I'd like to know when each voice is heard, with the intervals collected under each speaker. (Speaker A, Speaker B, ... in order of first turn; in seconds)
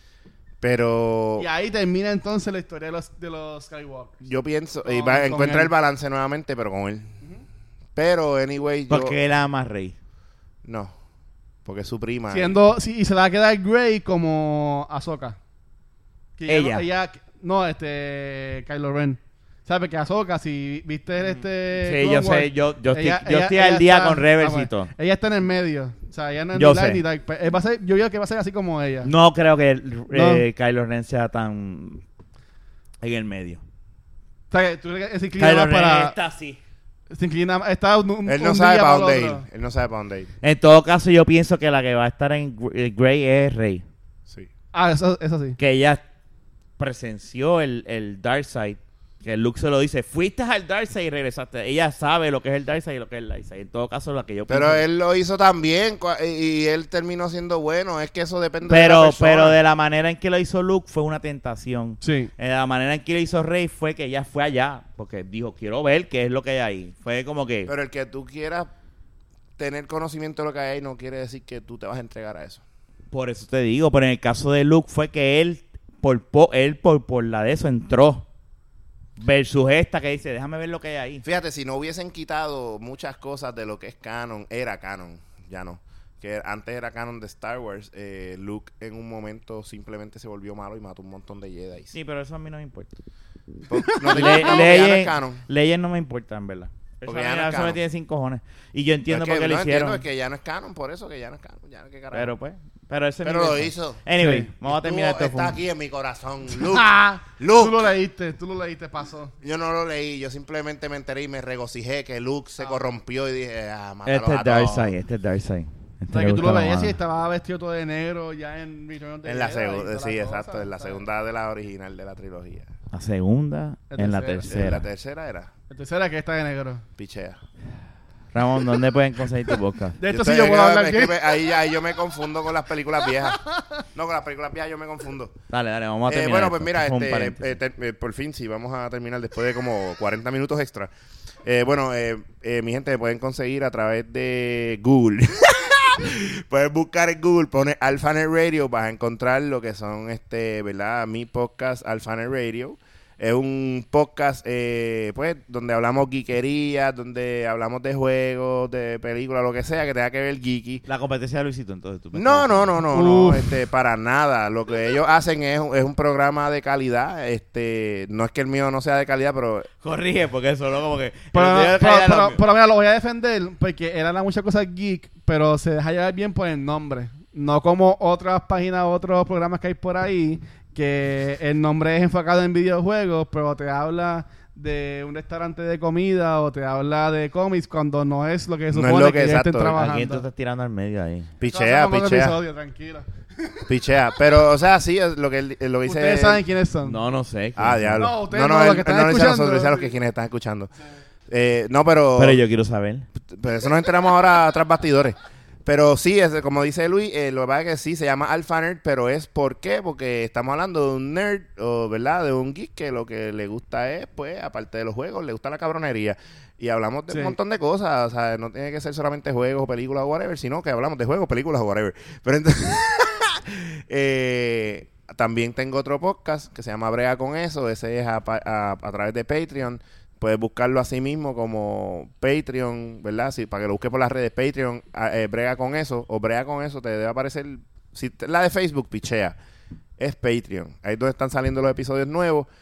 Speaker A: 0.6-1.4, 4.2-7.1, 7.9-9.2, 10.6-10.9, 11.6-12.6, 38.2-40.3, 54.5-59.6, 67.7-68.7, 69.6-72.6, 81.2-91.9, 93.7-95.4, 97.0-97.8, 99.1-102.3, 103.2-104.0, 104.6-107.9, 109.4-114.9, 119.2-122.7, 124.5-125.5, 127.0-127.4, 130.1-133.4, 133.9-135.3, 136.1-140.9, 141.4-160.8, 162.1-169.7, 188.7-189.8, 191.4-192.4, 193.7-196.4, 197.6-200.7, 201.3-202.4, 203.2-239.3, 240.0-242.5
Speaker B: 1.4-4.2, 4.8-5.7, 12.3-15.4, 16.4-29.1, 30.1-30.4, 34.5-36.1, 37.1-39.4, 44.7-45.6, 62.0-62.3, 93.8-94.6, 104.2-104.5, 106.6-109.3, 116.1-121.0, 123.9-124.5, 125.7-126.8, 130.0-131.2, 162.9-163.5, 171.3-190.2, 191.5-193.7, 195.8-197.0, 198.0-199.9, 217.1-217.3
Speaker C: 8.9-9.9, 16.5-16.9, 21.8-24.9, 26.5-27.0, 29.0-32.0, 33.0-33.6, 35.4-36.6, 40.4-43.8, 45.6-46.0, 46.8-54.8, 58.6-67.7, 73.1-78.2, 79.2-81.2, 91.9-92.9, 94.0-100.0, 102.1-105.6, 114.0-117.0, 122.9-124.8, 128.3-130.0, 135.5-137.6, 160.9-162.7, 169.8-172.4, 189.7-191.3, 196.8-198.1, 202.2-203.1